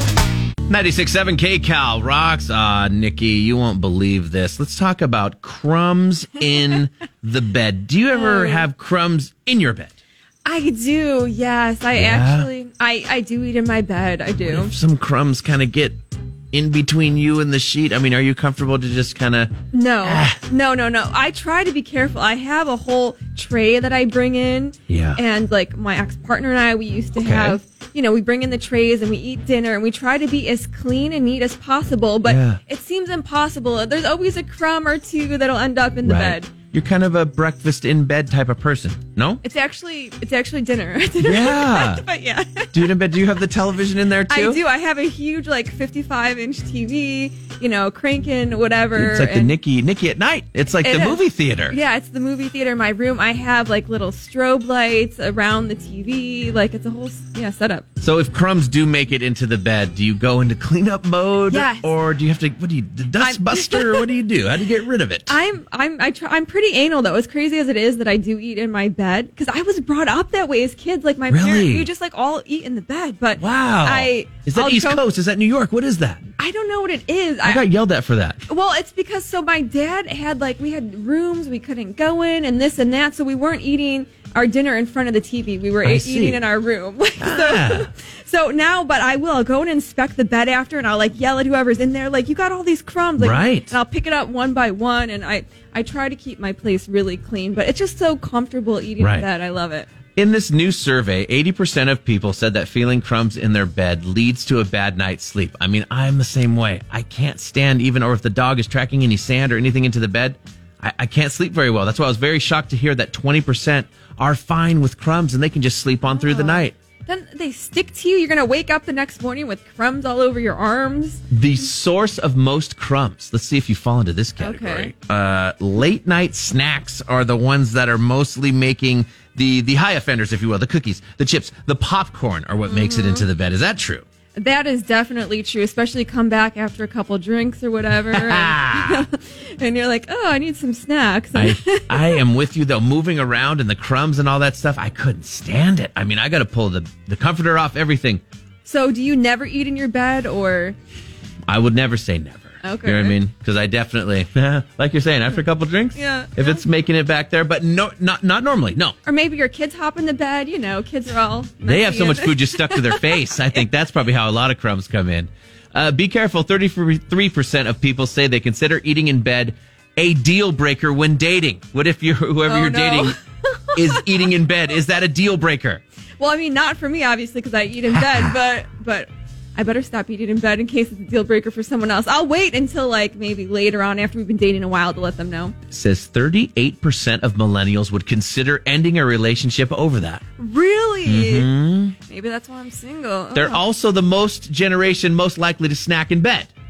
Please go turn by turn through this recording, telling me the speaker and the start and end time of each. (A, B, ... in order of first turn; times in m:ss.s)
0:00.7-0:10.0 A
0:08.1-0:08.6 B
0:10.4-0:14.7 B
0:11.9-0:12.5 A
0:14.4-0:16.0 A
0:16.5-0:20.4 A
0:19.7-0:36.5 B
0:24.9-0:25.2 A
0:27.2-0:27.6 A
0:32.2-0:32.6 A
0:36.0-0:39.4 A
0:39.4-0:42.9 B
0:41.2-0:42.0 A
0:42.7-0:44.6 A
0:44.3-0:49.5 B
0:48.9-0:51.8 A
0:50.8-0:57.8 B
0:58.0-1:05.3 A
1:01.5-1:01.9 B
1:03.2-1:04.0 B
1:05.3-1:15.0 B
1:11.3-1:11.9 A
1:13.4-1:16.2 A
1:16.4-1:17.6 B
1:17.4-1:18.4 A
1:18.5-1:39.9 B
1:25.8-1:26.4 A
1:27.2-1:27.9 A
1:33.2-1:33.7 A
1:39.0-1:39.3 A
1:40.1-1:56.8 A
1:56.0-2:01.2 B
2:01.3-2:14.0 A
2:04.4-2:04.9 B
2:12.6-2:13.2 B
2:14.4-2:22.2 B
2:18.1-2:19.0 A
2:21.3-2:28.2 A
2:28.6-2:30.8 B
2:31.5-2:39.0 A
2:32.6-2:33.2 B
2:35.9-2:36.6 B
2:39.0-2:43.3 B
2:41.6-2:53.2 A
2:52.5-2:54.1 B
2:53.8-2:55.8 A
2:56.2-3:05.5 B
2:57.9-2:58.3 A
3:05.7-3:10.2 A
3:10.4-3:11.5 B
3:11.0-3:12.0 A
3:12.0-3:13.6 B
3:13.3-3:16.5 A